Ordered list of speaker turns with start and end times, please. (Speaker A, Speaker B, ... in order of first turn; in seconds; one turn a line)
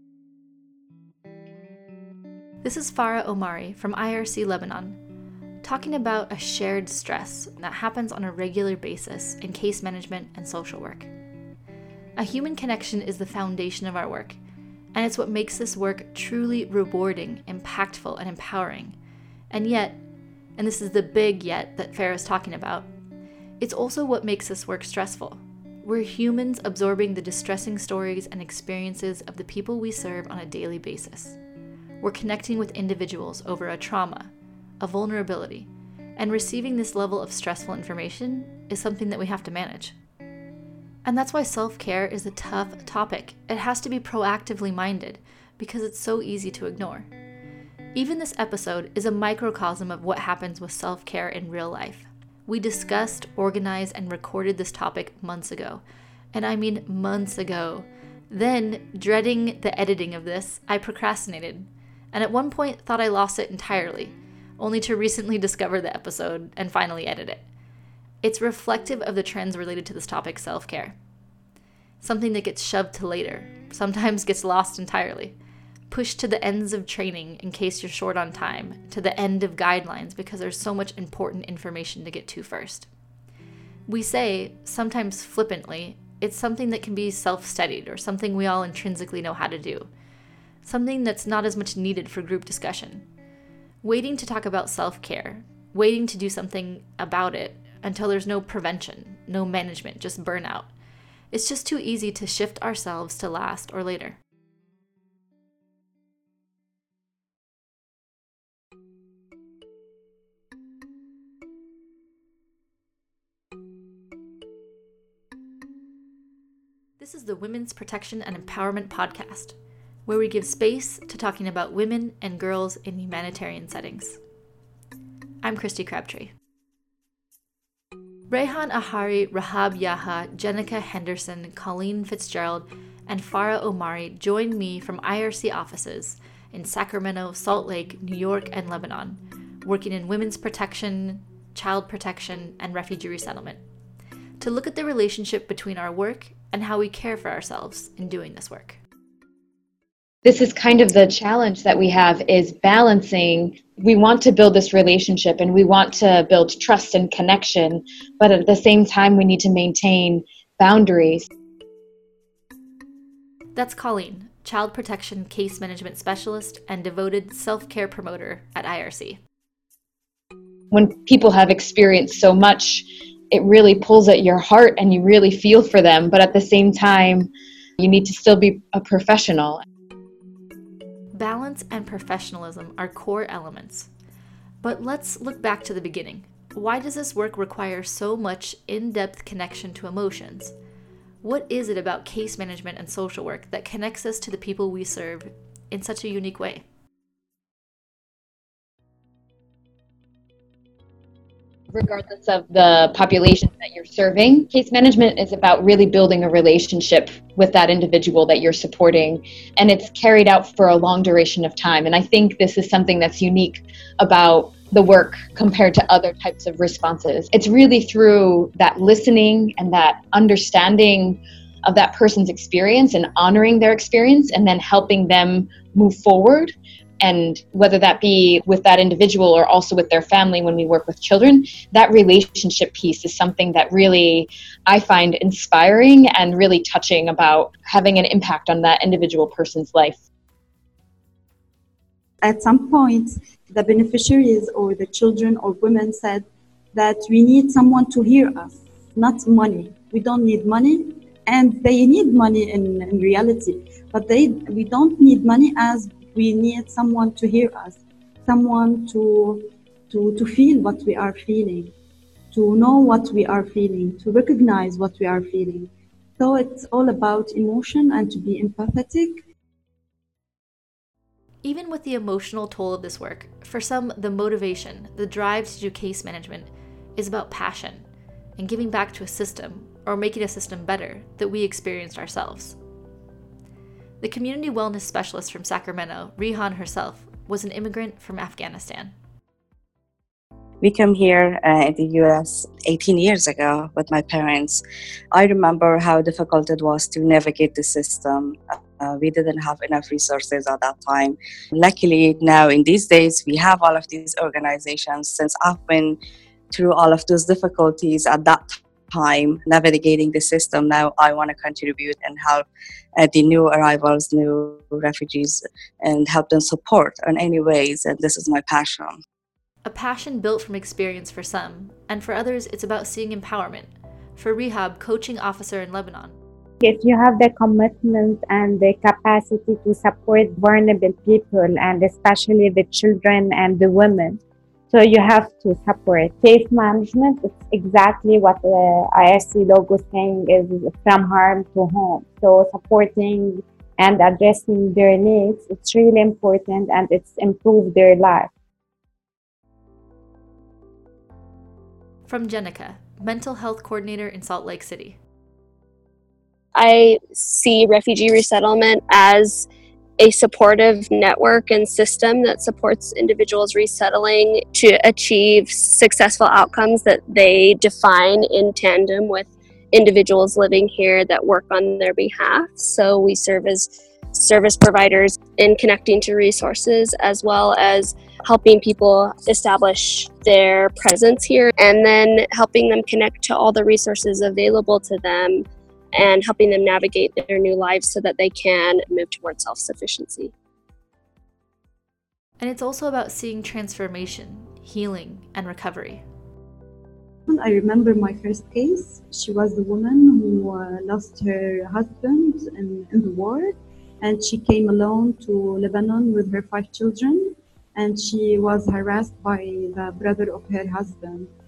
Speaker A: 2.6-5.0
Speaker A: 5.6-11.1
Speaker A: 12.2-14.4
Speaker A: 14.9-18.9
Speaker A: 19.5-20.0
Speaker A: 20.6-22.9
Speaker A: 23.6-31.4
Speaker A: 32.0-40.0
Speaker A: 41.0-47.1
Speaker A: 47.9-55.8
Speaker A: 56.3-67.4
Speaker A: 68.2-71.0
Speaker A: 72.0-75.3
Speaker A: 75.9-82.9
Speaker A: 83.9-89.9
Speaker A: 90.6-93.0
Speaker A: 93.8-100.7
Speaker A: 101.3-104.2
Speaker A: 117.0-119.6
Speaker A: 120.1-124.2
Speaker A: 125.4-126.3
Speaker A: 128.3-143.6
Speaker A: 144.4-148.8
Speaker B: 150.2-161.3
Speaker A: 163.6-169.2
Speaker B: 170.7-177.3
Speaker B: 177.8-179.6
Speaker A: 181.1-183.9
Speaker A: 184.6-190.5
Speaker A: 191.2-196.6
Speaker B: 201.7-240.0
Speaker C: 242.2-261.7
Speaker C: 262.3-269.2
Speaker A: 271.4-277.9
Speaker A: 278.4-282.6
Speaker A: 284.0-288.9
Speaker D: 290.6-306.0
Speaker D: 306.5-312.4
Speaker D: 313.0-319.0
Speaker A: 319.6-326.2
Speaker E: 326.6-348.3
Speaker A: 352.1-355.0
Speaker F: 356.6-359.5
Speaker F: 360.0-390.3
Speaker A: 392.4-396.0
Speaker C: 397.3-411.3